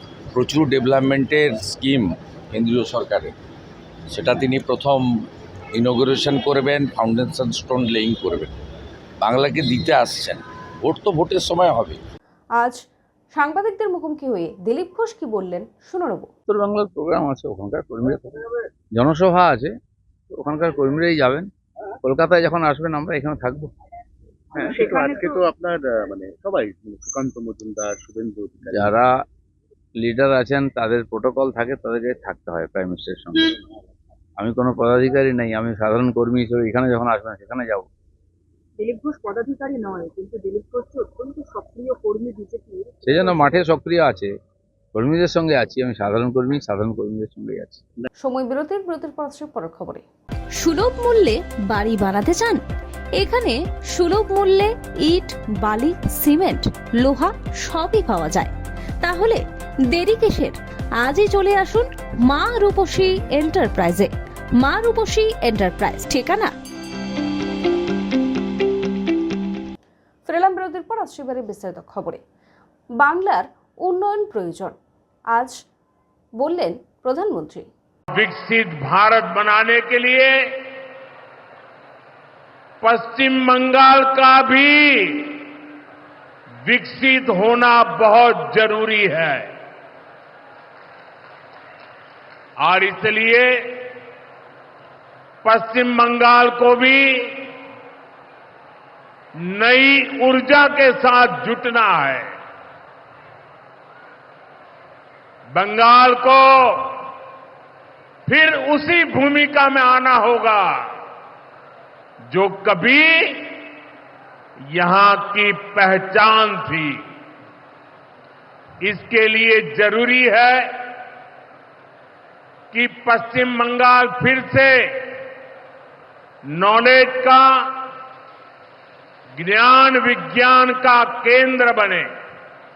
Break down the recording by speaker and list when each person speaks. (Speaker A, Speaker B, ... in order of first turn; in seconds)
Speaker A: 0.3-3.3, 4.1-5.1, 5.7-8.5, 9.2-12.0
Speaker B: 13.3-16.3, 48.2-50.0, 70.2-72.2, 73.0-74.8, 76.4-77.7
Speaker C: 16.5-18.3, 18.9-19.7, 20.3-21.5, 22.0-23.7, 28.7-29.1, 29.9-33.5, 34.4-37.9, 43.0-44.3, 44.9-47.8
Speaker D: 24.5-29.0
Speaker E: 24.8-25.1, 38.8-43.6
Speaker F: 50.6-52.6, 53.2-58.5, 59.0-59.4, 59.9-64.1, 64.6-66.5
Speaker G: 78.1-80.4, 82.8-85.5, 86.6-89.5, 92.6-94.0, 95.4-97.5, 99.4-102.3, 105.5-107.1, 108.2-110.9, 112.3-113.7, 114.7-117.0, 118.8-121.0, 122.7-125.1, 126.5-127.9, 129.4-132.1